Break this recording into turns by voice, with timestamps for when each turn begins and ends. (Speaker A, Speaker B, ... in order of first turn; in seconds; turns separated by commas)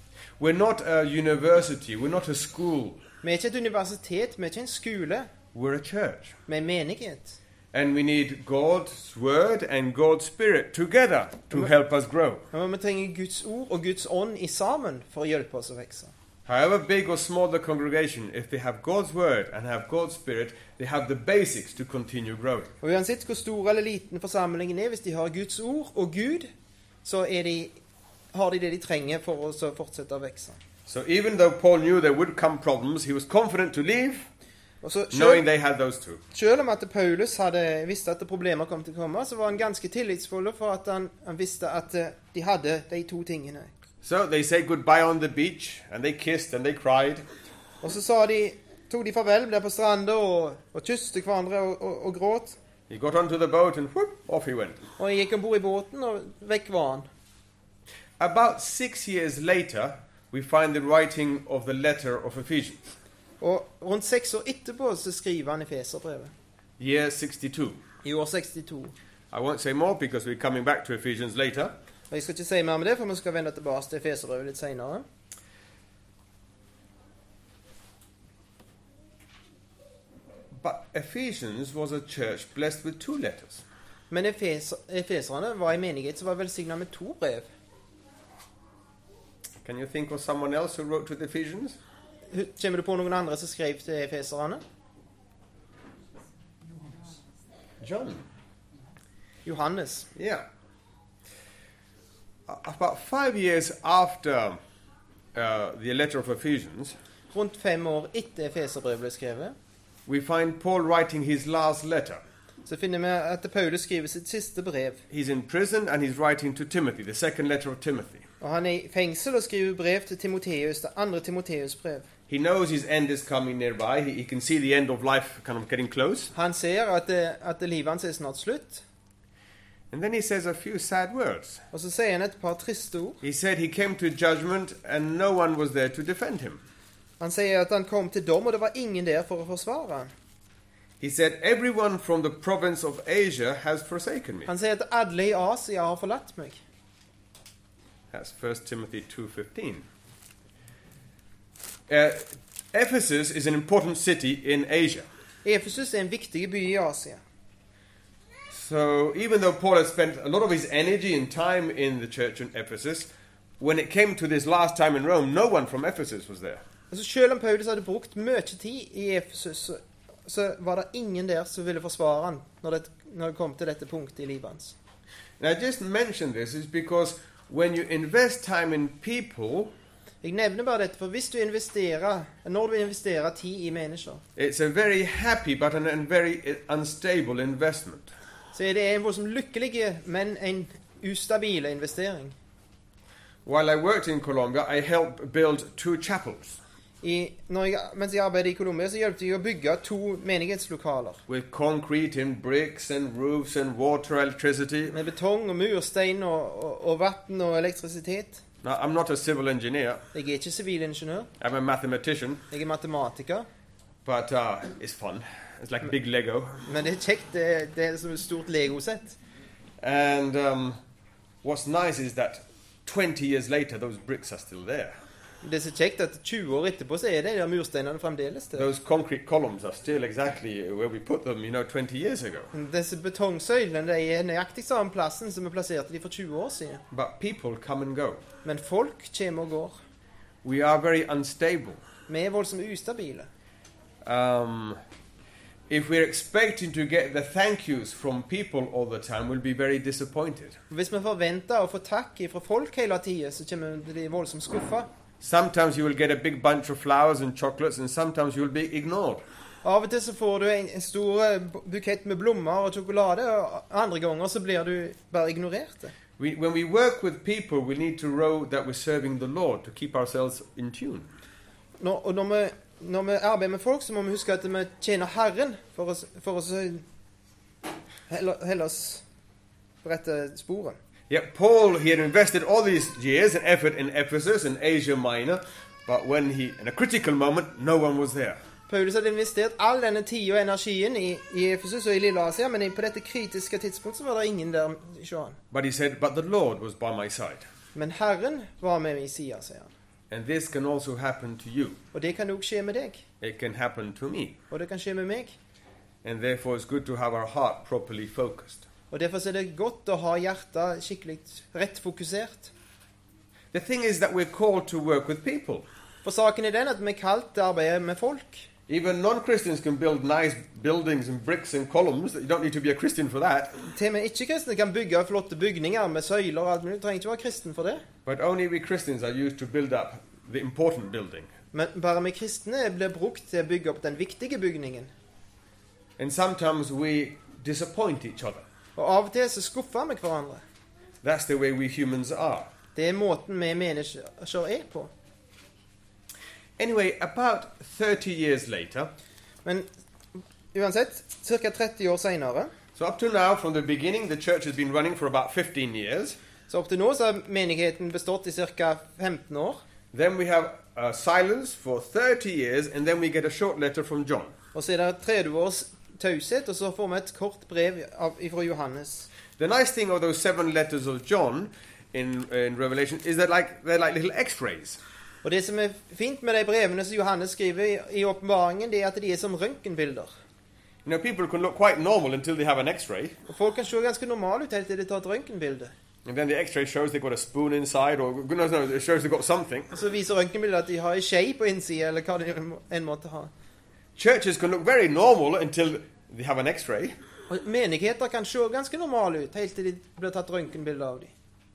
Speaker A: 0.4-3.0, Speaker B: 3.2-5.3, Speaker A: 5.5-6.4, Speaker B: 6.5-7.4, Speaker A: 7.7-12.5, Speaker B: 12.5-16.1, Speaker A: 16.4-22.7, Speaker B: 22.8-26.5, Speaker B: 27.0-27.8, Speaker B: 28.3-30.6, Speaker A: 30.9-34.3, Speaker B: 34.8-35.4, Speaker A: 35.1-36.2, Speaker B: 36.3-43.7, Speaker A: 44.0-47.2, Speaker B: 47.8-52.6, Speaker A: 52.9-54.8, Speaker B: 55.0-57.1, Speaker A: 58.2-63.0, Speaker B: 63.4-66.3, Speaker A: 66.8-67.8, Speaker B: 68.0-68.9, Speaker A: 69.3-71.7, Speaker B: 72.1-75.0, Speaker A: 80.5-83.6, Speaker B: 84.1-87.5, Speaker A: 89.6-91.8, Speaker B: 92.3-94.6, Speaker A: 97.8-98.2, Speaker B: 99.5-100.1, Speaker A: 100.2-100.5, Speaker A: 102.5-104.6, Speaker A: 105.3-107.0, Speaker B: 107.3-109.5, Speaker A: 110.1-112.2, Speaker B: 112.7-115.0, Speaker A: 115.1-118.2, Speaker B: 118.4-122.1, Speaker A: 122.3-126.3, Speaker B: 126.3-128.8, Speaker A: 129.9-131.6, Speaker B: 131.7-133.2, Speaker A: 133.2-136.6, Speaker B: 137.2-140.1, Speaker A: 141.0-144.5, Speaker B: 144.5-146.6, Speaker A: 148.1-149.9, Speaker A: 151.9-155.1, Speaker B: 155.4-157.2, Speaker A: 158.5-163.1, Speaker A: 163.6-166.6, Speaker B: 166.9-174.8, Speaker A: 175.4-179.7, Speaker B: 180.2-184.2, Speaker A: 184.4-188.1, Speaker B: 188.5-192.3, Speaker A: 193.4-196.6, Speaker B: 197.0-201.2, Speaker A: 201.3-204.9, Speaker B: 204.9-208.4, Speaker A: 208.6-210.0, Speaker B: 210.1-211.3, Speaker A: 211.4-212.4, Speaker B: 212.5-213.5, Speaker A: 214.1-216.5, Speaker B: 216.7-219.2, Speaker A: 219.8-220.8, Speaker A: 221.4-225.0, Speaker B: 225.4-228.7, Speaker A: 228.6-232.5, Speaker B: 232.5-236.8, Speaker A: 236.9-238.2, Speaker B: 238.4-239.8, Speaker A: 240.4-241.8, Speaker B: 242.1-243.3, Speaker A: 244.1-244.8, Speaker A: 245.7-250.6, Speaker B: 250.7-254.9, Speaker A: 255.2-259.2, Speaker B: 259.6-265.9, Speaker A: 266.2-271.1, Speaker B: 271.8-276.8, Speaker B: 278.1-279.0, Speaker B: 279.8-280.8, Speaker A: 281.1-288.4, Speaker B: 288.7-295.4, Speaker A: 295.5-297.4, Speaker B: 297.8-299.7, Speaker A: 300.1-301.8, Speaker B: 301.9-303.0, Speaker A: 303.2-304.4, Speaker B: 304.5-305.4, Speaker A: 306.0-308.6, Speaker B: 308.9-312.5, Speaker A: 313.5-315.6, Speaker B: 316.0-318.5, Speaker A: 318.7-323.6, Speaker B: 323.7-327.8, Speaker A: 328.1-331.3, Speaker B: 331.5-334.9, Speaker A: 336.0-338.4, Speaker B: 338.8-340.4, Speaker A: 341.0-342.5, Speaker B: 342.8-344.9, Speaker A: 346.6-348.9, Speaker B: 349.4-352.5, Speaker A: 352.8-356.2, Speaker B: 356.5-359.6, Speaker A: 359.9-364.4, Speaker B: 364.5-369.1, Speaker A: 369.4-374.8, Speaker B: 375.2-380.1, Speaker A: 380.9-383.2, Speaker B: 383.3-385.7, Speaker A: 386.1-389.7, Speaker B: 389.7-393.3, Speaker A: 394.0-396.9, Speaker B: 397.3-401.1